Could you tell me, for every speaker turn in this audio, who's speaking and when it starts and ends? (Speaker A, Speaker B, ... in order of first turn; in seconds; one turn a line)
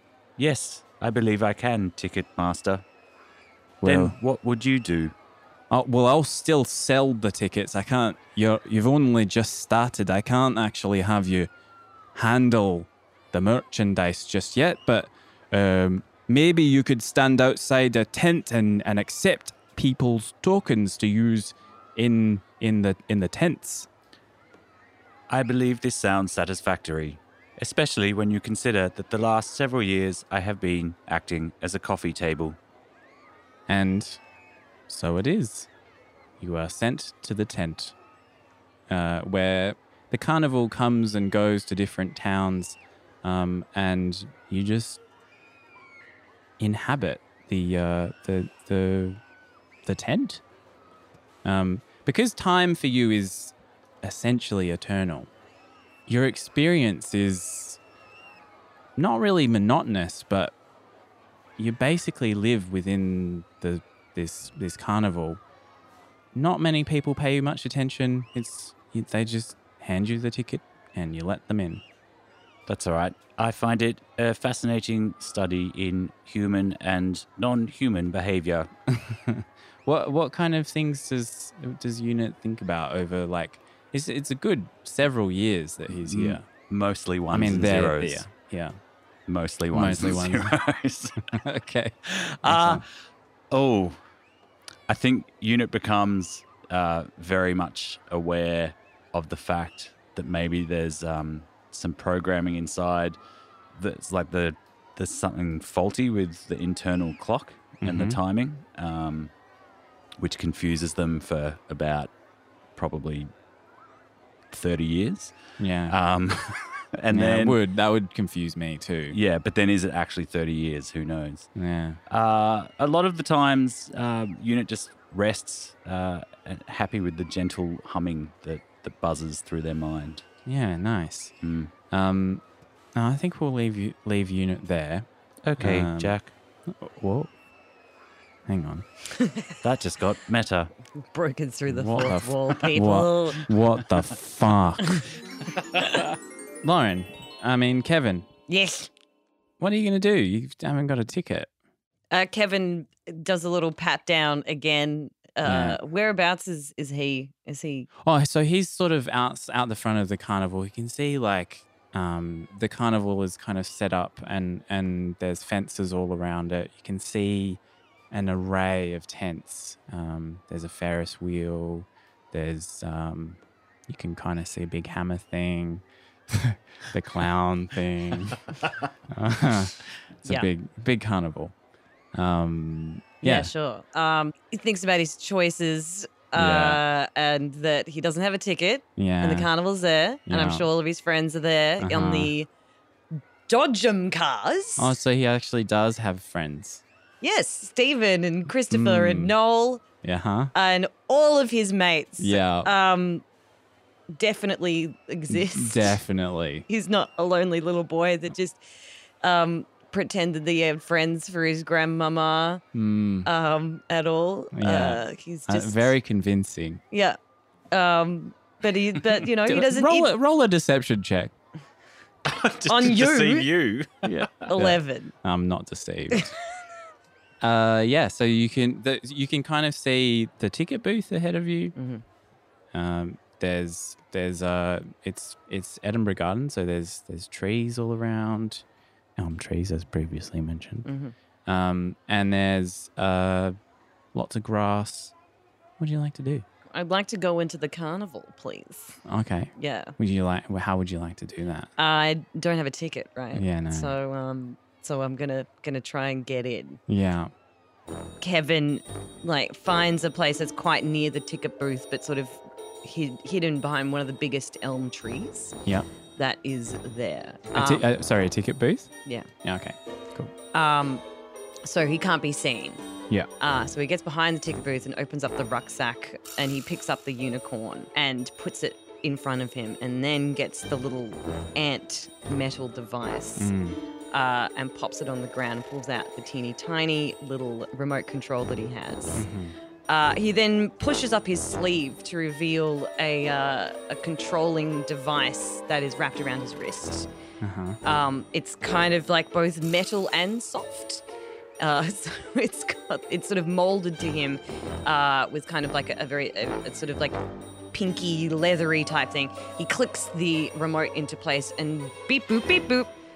Speaker A: 0.4-2.8
Speaker B: 3.8-4.1
Speaker A: 3.8-5.1
Speaker B: 5.7-11.5
Speaker B: 12.1-23.9
Speaker A: 25.3-32.6
Speaker B: 33.7-34.2
Speaker B: 34.9-35.7
Speaker B: 36.4-37.9
Speaker B: 38.9-45.0
Speaker B: 46.6-49.2
Speaker B: 49.8-50.4
Speaker B: 51.4-55.3
Speaker B: 56.1-57.8
Speaker B: 59.0-60.5
Speaker B: 61.6-65.4
Speaker B: 66.3-71.8
Speaker A: 72.7-78.7
Speaker B: 78.9-86.4
Speaker A: 85.9-88.2
Speaker B: 87.3-88.8
Speaker A: 89.3-91.3
Speaker B: 89.7-90.5
Speaker B: 91.3-92.8
Speaker A: 92.1-92.8
Speaker A: 93.5-94.0
Speaker A: 94.9-103.2
Speaker A: 103.7-109.3
Speaker B: 107.8-108.2
Speaker A: 110.2-112.1
Speaker A: 112.8-113.3
Speaker A: 114.5-115.3
Speaker B: 115.6-116.0
Speaker A: 115.9-117.6
Speaker B: 117.1-119.2
Speaker A: 119.1-121.5
Speaker B: 121.5-122.0
Speaker A: 122.1-130.2
Speaker B: 130.4-131.3
Speaker A: 131.4-131.7
Speaker B: 131.9-132.4
Speaker B: 132.9-135.1
Speaker A: 135.4-136.3
Speaker B: 135.6-136.1
Speaker B: 136.7-137.3
Speaker B: 138.4-138.8
Speaker C: 139.1-139.5
Speaker A: 139.6-140.7
Speaker C: 141.1-143.5
Speaker B: 141.7-145.0
Speaker B: 146.6-148.3
Speaker C: 148.5-148.9
Speaker B: 149.6-151.5
Speaker C: 152.1-157.9
Speaker B: 155.4-155.8
Speaker B: 158.0-167.6
Speaker B: 168.1-178.4
Speaker B: 179.1-181.5
Speaker B: 182.1-183.5
Speaker C: 183.2-192.5
Speaker B: 186.3-186.8
Speaker B: 189.0-189.5
Speaker B: 190.3-190.7
Speaker B: 191.8-192.3
Speaker C: 193.5-195.0
Speaker B: 194.8-196.8
Speaker C: 197.2-199.8
Speaker B: 198.7-199.3
Speaker B: 200.0-200.5
Speaker C: 200.5-203.2
Speaker B: 202.2-202.7
Speaker C: 204.1-205.9
Speaker B: 205.3-206.7
Speaker C: 206.7-208.6
Speaker C: 209.2-212.6
Speaker B: 212.7-213.3
Speaker C: 213.2-215.9
Speaker B: 214.5-216.8
Speaker C: 216.9-217.2
Speaker C: 217.7-220.1
Speaker B: 219.4-221.3
Speaker A: 222.2-224.5
Speaker C: 222.7-223.5
Speaker B: 224.0-226.3
Speaker C: 224.4-225.1
Speaker B: 227.4-231.7
Speaker C: 231.8-232.0
Speaker B: 232.7-238.6
Speaker B: 239.2-240.9
Speaker C: 240.8-241.1
Speaker B: 241.4-243.6
Speaker B: 244.1-245.1
Speaker B: 245.8-246.4
Speaker C: 246.7-249.0
Speaker B: 249.1-251.7
Speaker C: 249.6-249.9
Speaker C: 251.8-256.8
Speaker B: 253.3-253.9
Speaker B: 256.9-257.3
Speaker C: 258.2-265.6
Speaker C: 266.2-267.9
Speaker B: 267.5-268.9
Speaker B: 269.4-270.3
Speaker C: 270.5-271.0
Speaker C: 271.6-272.8
Speaker C: 273.4-283.5
Speaker B: 283.4-283.8
Speaker C: 284.1-289.2
Speaker B: 289.1-289.6
Speaker C: 289.9-297.1
Speaker B: 297.4-297.8
Speaker C: 297.8-301.0
Speaker C: 301.6-307.1
Speaker C: 307.7-312.9